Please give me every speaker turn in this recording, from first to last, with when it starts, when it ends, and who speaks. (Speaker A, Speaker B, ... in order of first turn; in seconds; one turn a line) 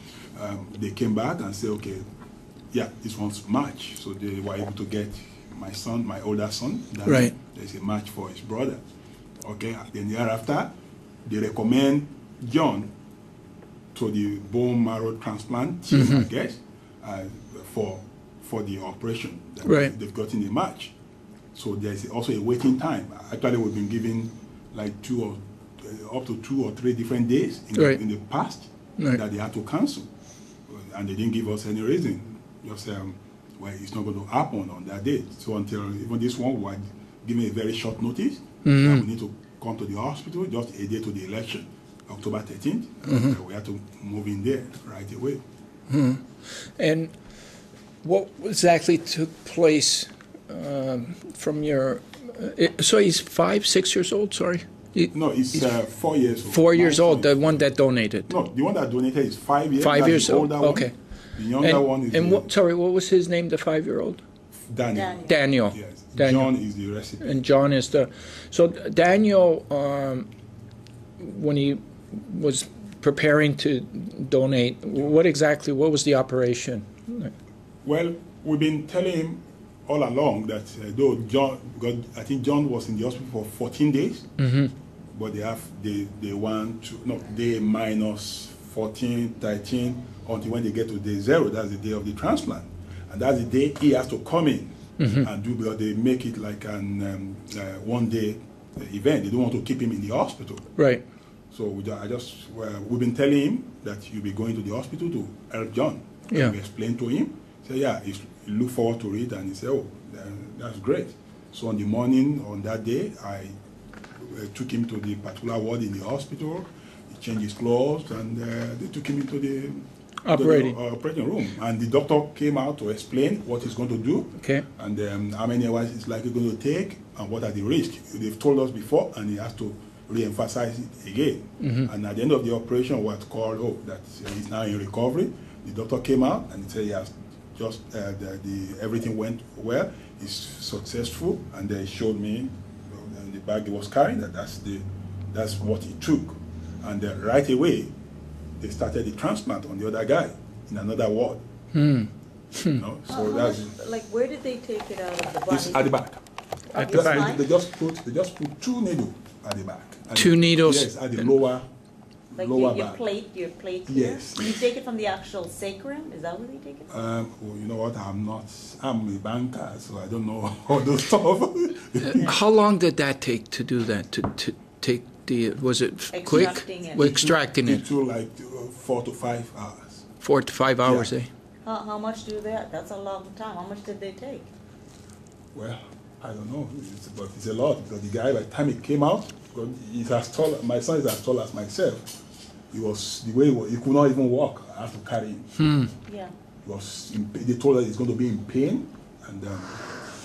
Speaker A: 0.3-2.0
Speaker A: 2.7-8.8
Speaker B: 7.0-7.3
Speaker A: 9.4-10.7
Speaker A: 11.2-12.9
Speaker A: 13.9-20.9
Speaker B: 15.9-16.2
Speaker B: 19.6-19.9
Speaker A: 21.5-30.1
Speaker B: 27.8-28.0
Speaker A: 30.7-45.4
Speaker B: 38.6-39.0
Speaker B: 43.1-43.4
Speaker B: 45.9-47.1
Speaker B: 48.0-55.7
Speaker A: 55.1-57.7
Speaker B: 56.5-58.3
Speaker A: 58.3-62.5
Speaker B: 59.8-60.9
Speaker B: 61.6-64.2
Speaker A: 64.7-67.5
Speaker C: 64.9-65.4
Speaker B: 65.2-66.5
Speaker B: 67.2-70.3
Speaker B: 71.2-77.3
Speaker A: 77.8-84.3
Speaker B: 84.4-84.7
Speaker A: 85.1-100.7
Speaker B: 95.0-95.3
Speaker B: 100.8-101.0
Speaker A: 101.5-113.5
Speaker A: 114.2-147.9
Speaker B: 120.2-120.8
Speaker B: 124.4-124.7
Speaker B: 131.6-131.9
Speaker A: 148.6-151.4
Speaker B: 151.7-152.8
Speaker A: 152.7-153.8
Speaker C: 153.1-155.9
Speaker A: 155.5-156.2
Speaker C: 156.7-157.5
Speaker B: 156.7-157.3
Speaker A: 156.8-161.7
Speaker B: 160.2-161.3
Speaker A: 162.3-163.0
Speaker C: 162.3-166.9
Speaker A: 163.9-164.6
Speaker A: 166.9-172.3
Speaker B: 172.1-177.8
Speaker C: 176.1-177.3
Speaker A: 177.0-180.1
Speaker B: 180.2-181.3
Speaker A: 180.8-181.1
Speaker C: 181.6-184.5
Speaker A: 185.6-192.2
Speaker A: 192.7-195.8
Speaker B: 195.6-195.9
Speaker C: 196.1-196.3
Speaker A: 196.6-199.9